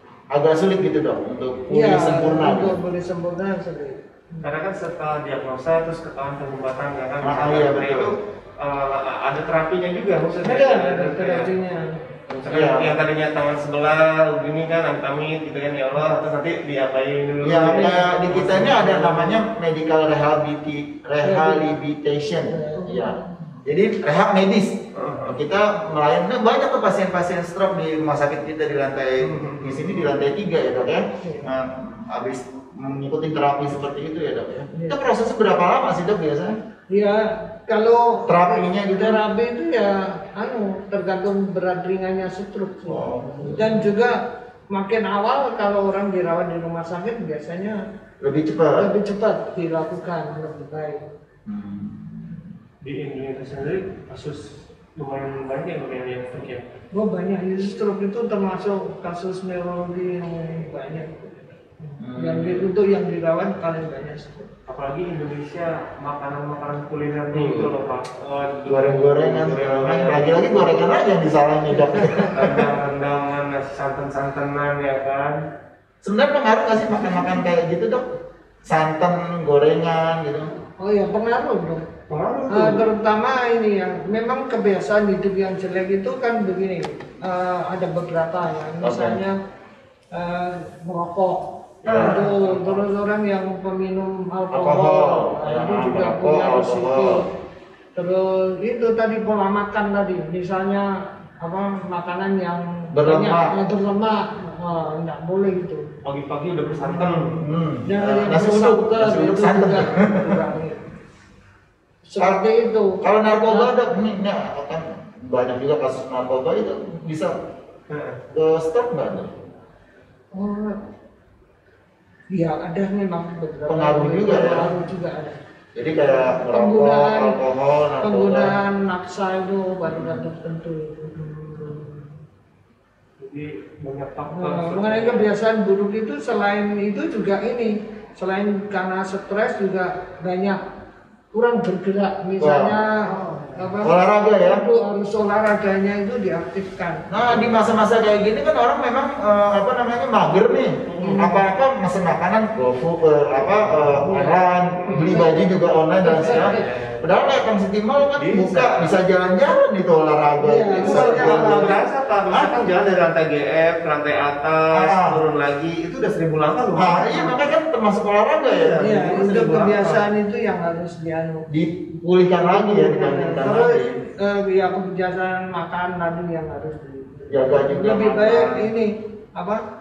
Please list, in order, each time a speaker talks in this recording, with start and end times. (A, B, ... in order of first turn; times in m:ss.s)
0:00.3-0:02.8 A
0:01.7-0:04.5 B
0:04.4-0:11.5 C
0:07.2-0:08.1 A
0:10.4-0:12.0 B
0:12.3-0:19.4 C
0:12.4-0:13.0 A
0:17.4-0:24.8 A
0:17.7-0:18.1 B
0:21.2-0:21.8 B
0:22.4-0:23.5 B
0:25.0-0:25.4 C
0:25.3-0:36.6 A
0:29.2-0:30.2 C
0:31.2-0:31.5 B
0:34.7-0:35.0 B
0:36.9-0:47.8 B
0:38.3-0:39.2 A
0:42.9-0:43.8 A
0:48.2-0:48.9 A
0:48.7-0:51.1 B
0:51.5-0:52.4 A
0:52.8-0:56.6 C
0:56.9-1:04.5 B
1:02.0-1:02.7 A
1:04.7-1:11.1 C
1:07.3-1:07.7 A
1:08.7-1:12.7 A
1:11.7-1:12.4 B
1:12.3-1:15.4 C
1:16.0-1:18.0 A
1:18.6-1:20.5 A
1:20.8-1:21.9 B
1:22.1-1:22.8 C
1:22.5-1:29.4 B
1:28.8-1:29.2 A
1:30.1-1:37.3 B
1:31.8-1:32.8 C
1:31.9-1:32.2 A
1:34.5-1:37.2 A
1:38.0-1:40.9 B
1:41.4-1:45.8 B
1:42.9-1:43.5 A
1:46.0-1:47.5 C
1:46.8-1:47.3 B
1:47.4-1:50.4 A
1:47.9-1:50.9 B
1:52.1-1:53.8 B
1:53.0-1:57.3 A
1:57.9-1:58.2 C
1:58.3-1:59.3 A
2:00.3-2:00.8 B
2:02.3-2:05.4 B
2:03.7-2:04.7 A
2:05.8-2:08.6 A
2:06.0-2:07.4 B
2:08.0-2:12.1 B
2:09.8-2:10.3 A
2:13.2-2:15.3 C
2:14.3-2:20.6 B
2:21.3-2:27.4 B
2:22.4-2:22.8 A
2:23.1-2:23.7 C
2:23.8-2:24.6 A
2:27.1-2:41.8 A
2:30.9-2:31.2 C
2:31.0-2:31.5 B
2:33.3-2:34.1 C
2:34.0-2:36.6 B
2:34.8-2:35.4 C
2:36.1-2:37.1 C
2:38.2-2:38.9 C
2:40.4-2:41.8 B
2:40.8-2:47.4 C
2:44.7-2:45.2 A
2:46.8-2:48.8 A
2:48.6-2:50.0 C
2:48.8-2:51.4 B
2:51.5-2:54.0 A
2:52.3-2:59.6 B
2:57.3-2:58.7 A